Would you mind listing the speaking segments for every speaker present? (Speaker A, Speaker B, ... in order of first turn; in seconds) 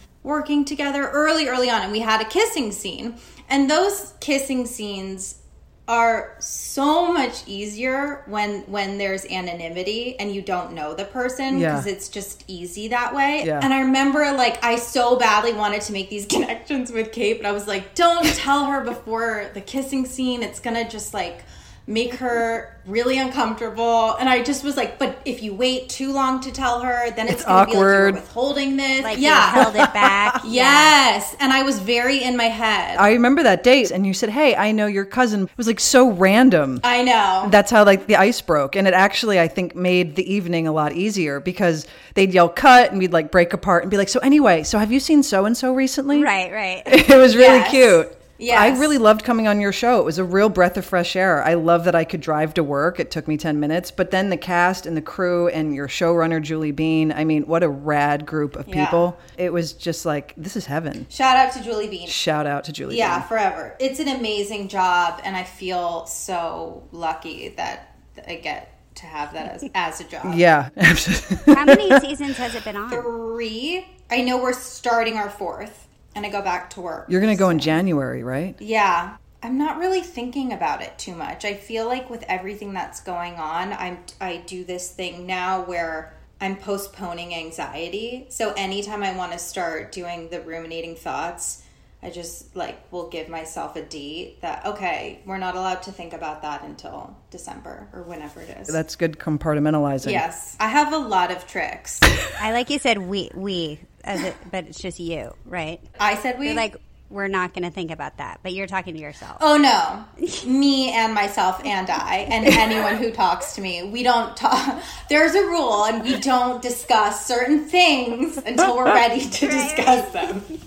Speaker A: 0.2-29.8, 30.4-33.0, 36.8-37.6, 47.3-49.0, 58.6-59.1, 61.1-62.2, 62.9-70.4, 72.9-77.8, 78.6-98.8, 100.0-102.1, 106.0-106.6, 109.4-120.5
Speaker B: 11.5-11.9, 13.4-13.7, 27.2-28.2, 29.5-30.4, 33.0-36.8, 37.4-46.3, 46.9-61.1, 62.1-63.3, 70.2-72.0, 77.1-78.6, 98.7-100.2
Speaker C: 29.0-30.9, 46.1-47.0, 71.5-73.1, 102.4-105.8, 106.4-109.4, 119.4-120.3